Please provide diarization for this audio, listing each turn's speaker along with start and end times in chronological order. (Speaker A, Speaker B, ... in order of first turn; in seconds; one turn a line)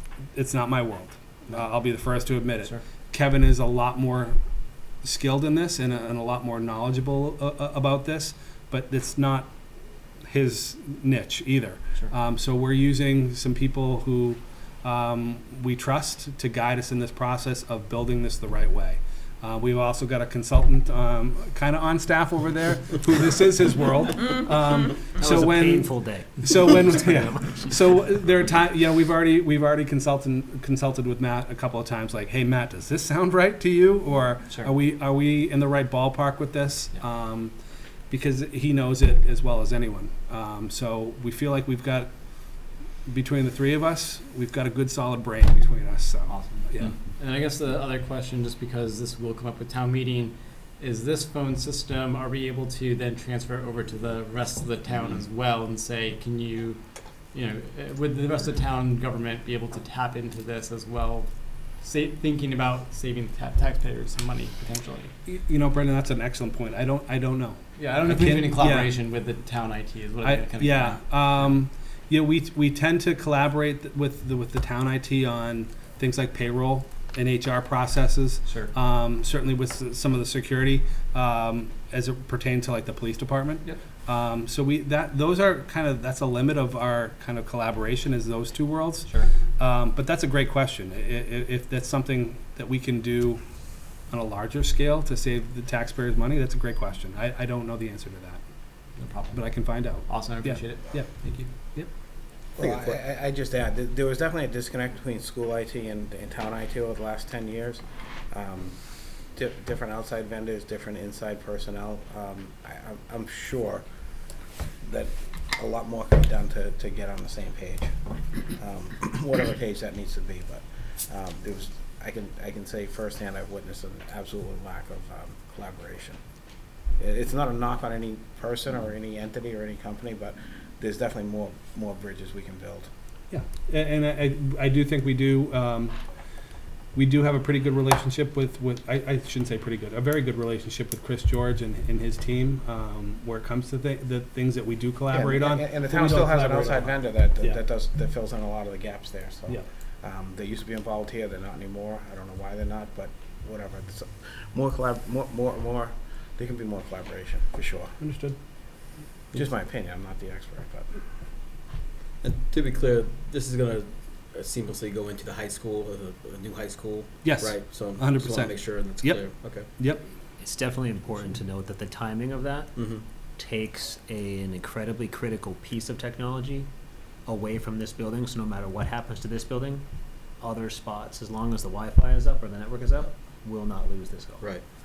Speaker A: 0.3-4.4
Speaker A: 5.0-9.5
Speaker A: 10.2-37.5
Speaker B: 25.2-27.5
Speaker A: 38.1-42.1
Speaker A: 43.1-46.9
Speaker C: 46.3-56.8
Speaker C: 57.3-65.1
Speaker A: 65.3-68.9
Speaker C: 67.8-71.5
Speaker A: 70.2-93.4
Speaker C: 89.0-89.3
Speaker A: 94.1-98.4
Speaker C: 99.0-101.5
Speaker A: 99.3-101.1
Speaker D: 102.6-108.8
Speaker E: 102.6-103.0
Speaker D: 109.3-113.8
Speaker D: 114.8-117.9
Speaker D: 118.5-126.2
Speaker D: 127.0-132.9
Speaker A: 133.3-136.0
Speaker A: 136.9-147.6
Speaker D: 145.1-157.9
Speaker A: 158.0-158.4
Speaker D: 159.3-160.9
Speaker E: 162.2-169.7
Speaker A: 167.2-170.0
Speaker B: 170.4-172.8
Speaker E: 172.8-173.0
Speaker B: 173.4-176.7
Speaker B: 177.3-179.8
Speaker B: 180.4-184.5